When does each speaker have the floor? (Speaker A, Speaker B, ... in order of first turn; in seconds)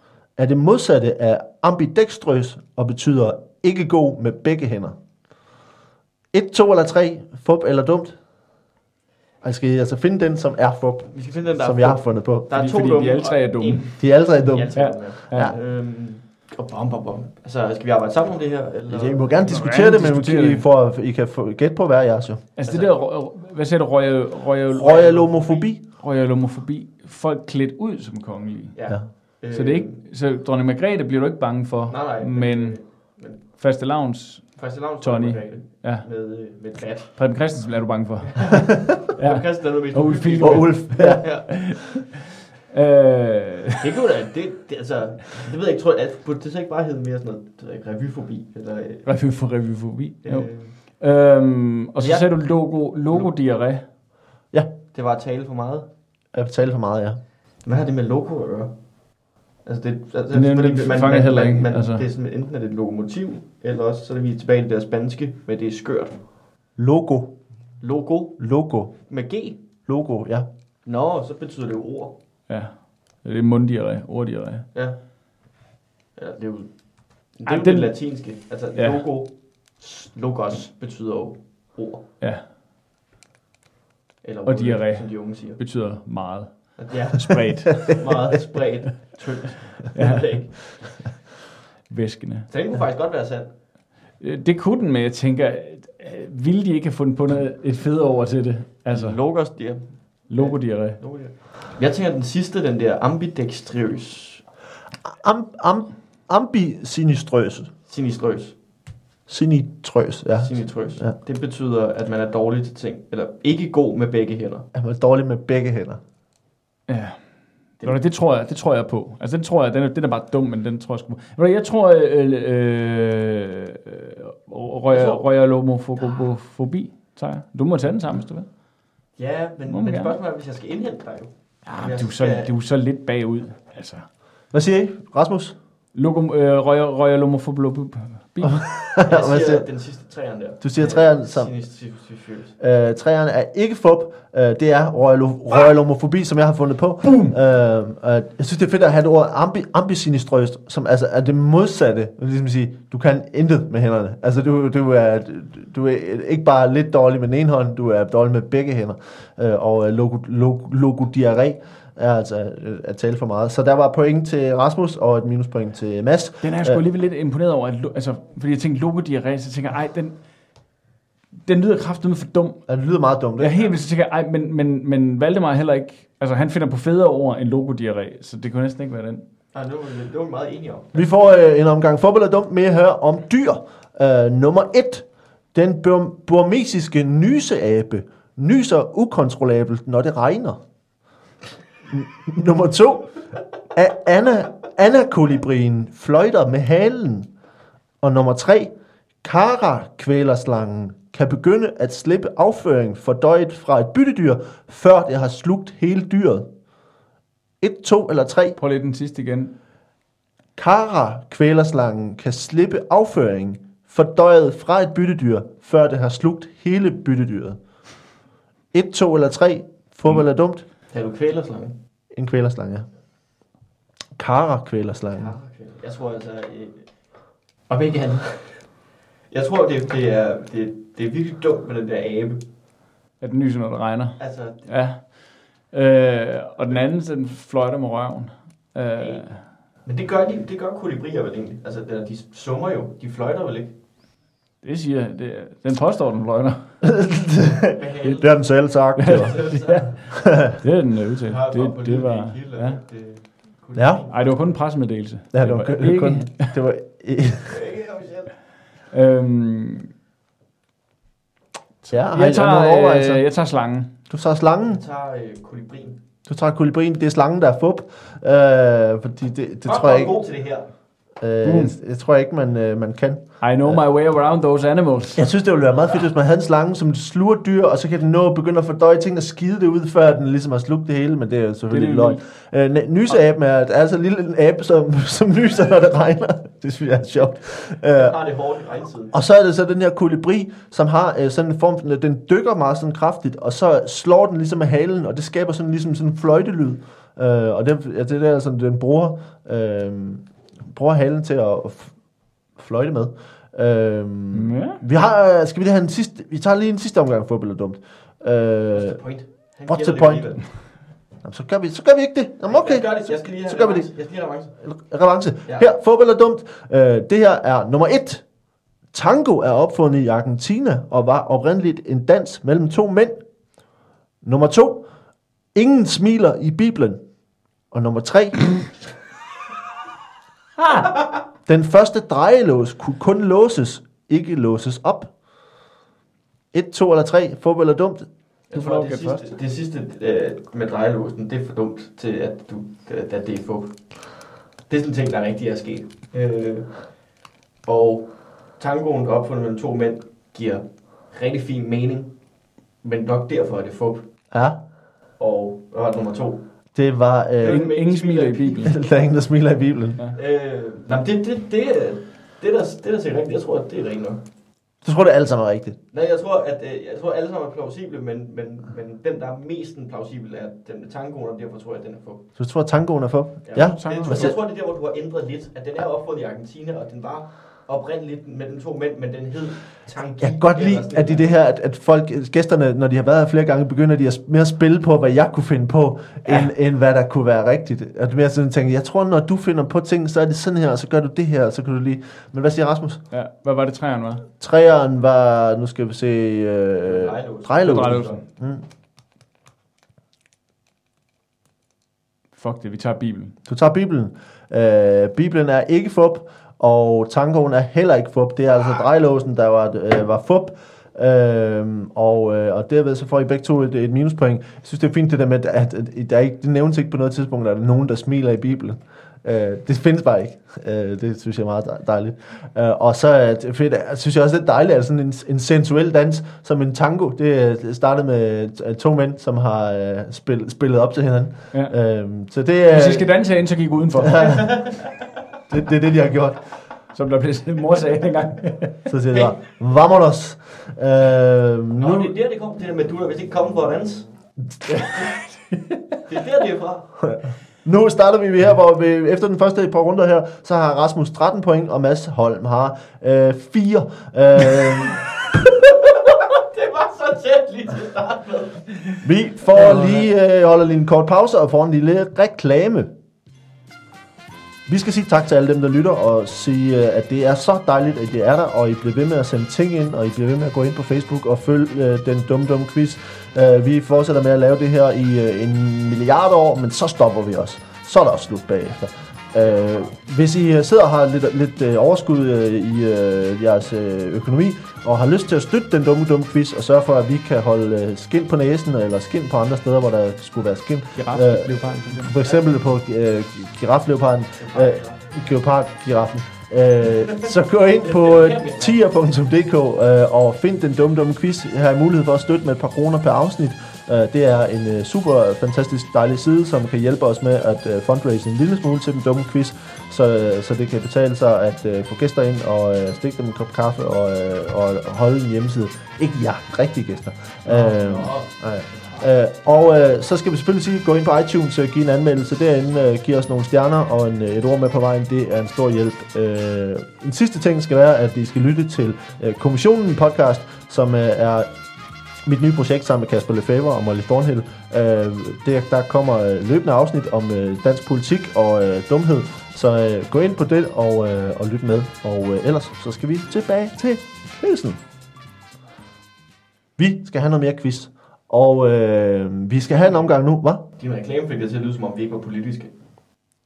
Speaker A: 0.4-5.0, 6.3-8.2, 9.4-12.5, 14.0-15.6, 18.9-22.5, 24.7-25.8, 40.4-41.8, 56.3-57.2, 66.8-67.4, 68.4-69.1, 69.8-70.5, 105.0-107.7, 109.3-111.1, 114.7-116.0, 134.5-135.5, 138.6-139.7, 140.6-141.5, 142.6-166.8, 172.7-173.6, 180.9-190.6, 191.9-193.2, 193.7-197.3, 198.0-198.7, 199.2-206.4, 207.6-208.6, 210.6-217.6, 218.7-220.6, 222.1-222.9, 224.2-225.3, 246.8-249.5, 253.7-254.0, 255.3-257.6, 261.9-263.2, 264.1-264.8, 266.2-270.2, 271.2-273.8, 275.1-288.2, 289.1-302.0, 302.5-309.0, 309.6-310.6, 311.2-313.9, 314.6-318.2, 318.9-323.2, 324.2-324.9, 325.5-327.0, 327.7-328.8, 331.4-335.1, 336.5-338.1, 354.3-354.6, 356.7-357.6, 358.6-360.0, 364.8-365.8, 372.4-374.4, 380.2-393.0, 394.4-398.6, 403.5-433.1, 434.0-434.6, 435.5-436.5, 438.9-442.1, 444.6-445.0, 447.0-455.0, 459.0-462.9, 464.7-531.5, 532.2-544.8, 546.8-550.6
Speaker B: 11.1-19.6, 22.6-23.1, 25.0-25.6, 28.7-30.0, 31.9-33.7, 34.5-37.5, 38.5-41.5, 43.8-49.2, 50.2-50.8, 52.0-53.3, 54.9-55.9, 57.6-66.2, 67.8-69.6, 70.8-72.1, 74.7-82.1, 84.2-85.6, 86.8-91.0, 92.5-93.5, 98.9-104.5, 107.9-108.6, 110.4-114.7, 124.9-125.8, 129.2-132.5, 139.0-142.6, 179.5-180.9, 220.9-221.8, 225.1-232.4, 234.2-234.8, 238.9-243.8, 247.8-250.1, 251.3-254.3, 257.4-258.4, 264.7-266.0, 269.6-270.7, 287.6-289.1, 308.7-310.7, 312.4-314.7, 315.5-315.7, 338.5-346.9, 347.6-352.1, 352.8-354.1, 355.2-356.4, 357.4-359.0, 360.1-364.2, 365.9-372.3, 373.4-381.3, 396.8-398.2, 434.2-434.8, 439.1-439.4, 441.8-444.1, 446.1-447.1, 455.9-459.0, 459.7-459.9, 492.2-492.4, 494.4-495.1, 497.8-498.8, 517.5-519.0, 550.8-552.7
Speaker C: 12.5-14.0, 14.7-15.5, 19.4-20.6, 22.5-42.0, 42.7-43.8, 49.0-53.9, 60.3-62.0, 72.5-74.7, 77.5-79.0, 82.2-82.5, 84.4-88.2, 89.9-90.9, 91.9-92.7, 94.2-99.2, 100.3-101.0, 116.9-128.6, 129.7-130.2, 131.6-134.1, 135.9-138.7, 166.4-170.3, 171.4-172.7, 173.4-179.2, 208.6-209.5, 233.2-239.4, 244.6-246.8, 248.9-252.8, 254.1-256.5, 258.9-259.9, 261.8-263.9, 271.4-271.7, 273.4-275.3, 281.7-282.2, 304.3-304.8, 338.5-339.2, 357.4-358.7, 373.6-374.3, 386.2-386.5, 393.1-394.3, 397.6-398.2, 402.3-403.3, 432.7-434.4, 436.9-438.7, 490.9-492.1